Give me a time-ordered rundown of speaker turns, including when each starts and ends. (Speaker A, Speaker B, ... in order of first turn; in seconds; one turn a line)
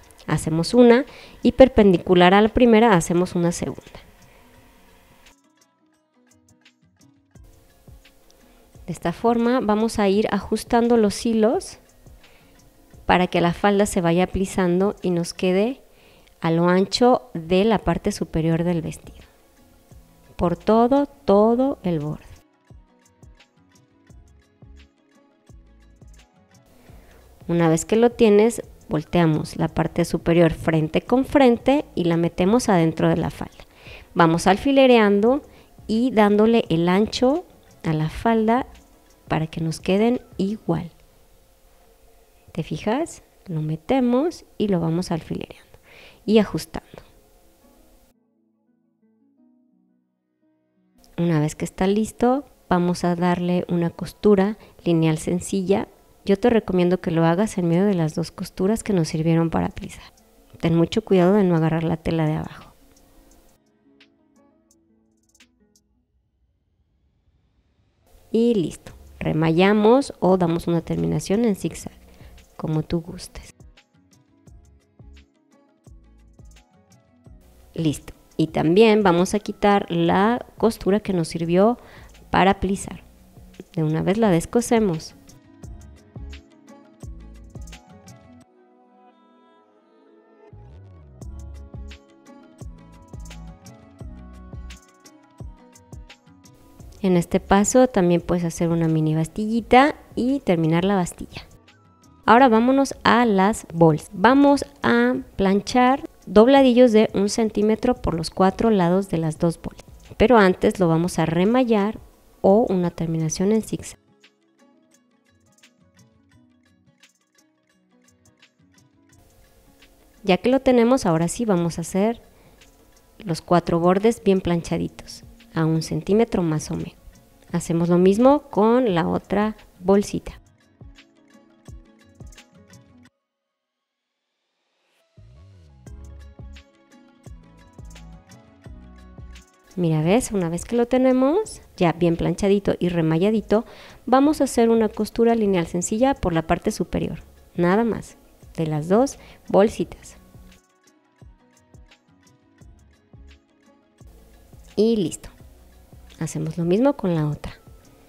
Speaker A: 0.3-4.0
Speaker A: 8.9-11.8
Speaker A: 13.1-15.8
Speaker A: 16.4-19.3
Speaker A: 20.4-22.3
Speaker A: 27.5-38.7
Speaker A: 39.3-40.9
Speaker A: 42.5-47.0
Speaker A: 51.2-62.7
Speaker A: 68.3-72.0
Speaker A: 72.6-73.5
Speaker A: 77.7-83.0
Speaker A: 83.7-85.2
Speaker A: 97.0-101.5
Speaker A: 102.2-114.0
Speaker A: 120.2-122.2
Speaker A: 123.2-127.0
Speaker A: 127.5-130.4
Speaker A: 139.8-150.2
Speaker A: 154.8-155.3
Speaker A: 156.2-157.6